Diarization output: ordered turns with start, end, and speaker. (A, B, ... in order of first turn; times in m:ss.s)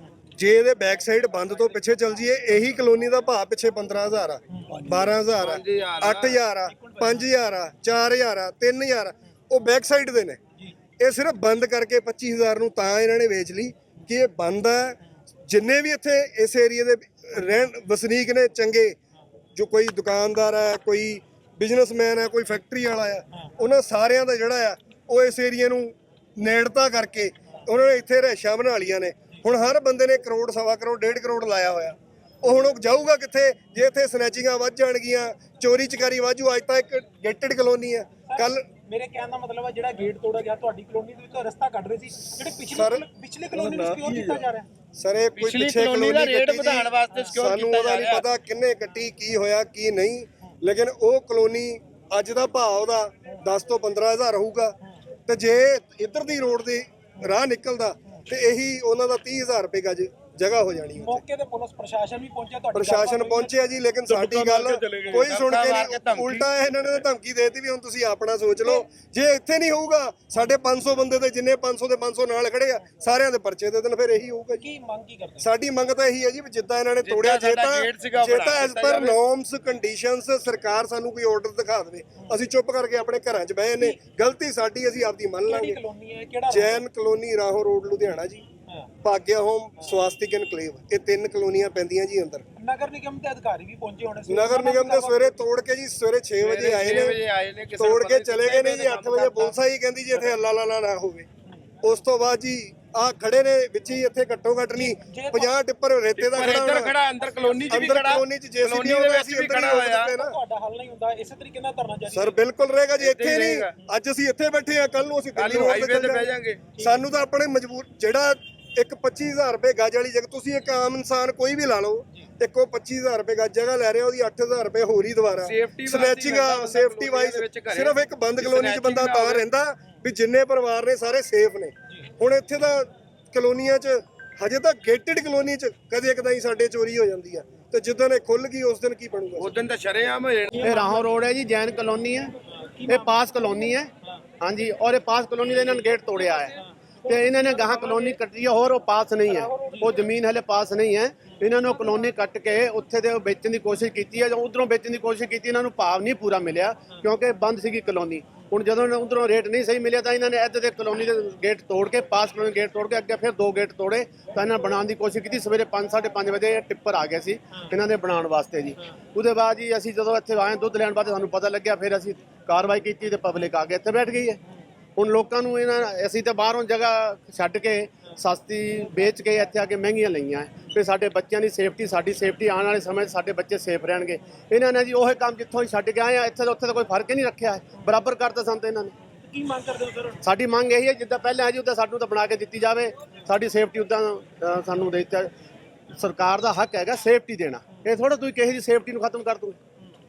0:00.4-0:10.4 A
0:04.5-0:04.9 B
0:05.2-0:06.4 C
0:06.6-0:07.3 B
0:11.0-0:19.0 A
0:19.5-0:38.6 A
0:38.3-0:44.7 B
0:42.6-0:54.8 A
0:45.4-0:48.2 C
0:55.3-1:01.2 A
1:01.0-1:03.6 B
1:02.7-1:14.6 A
1:04.1-1:06.4 C
1:14.6-1:15.5 B
1:15.4-1:25.8 A
1:17.0-1:19.1 C
1:25.4-1:26.8 B
1:26.5-1:28.4 A
1:29.0-1:32.4 A
1:32.6-1:35.4 B
1:34.3-1:37.2 A
1:36.4-1:39.5 C
1:37.8-1:41.3 A
1:41.8-1:46.9 A
1:44.7-1:45.5 B
1:46.2-1:50.1 C
1:47.7-1:50.4 A
1:50.1-1:52.4 B
1:52.1-2:19.6 A
1:53.0-1:53.7 C
1:55.4-1:56.6 C
1:56.8-1:57.1 B
2:05.4-2:09.4 C
2:19.4-2:20.6 C
2:20.5-2:21.2 B
2:20.6-2:22.3 D
2:22.5-2:23.7 B
2:22.9-2:23.9 D
2:24.4-2:54.4 D
2:26.5-2:28.1 B
2:29.3-2:30.1 B
2:31.4-2:32.1 B
2:55.0-3:08.9 D
3:09.2-3:10.2 B
3:10.2-3:15.3 D
3:16.0-3:19.6 D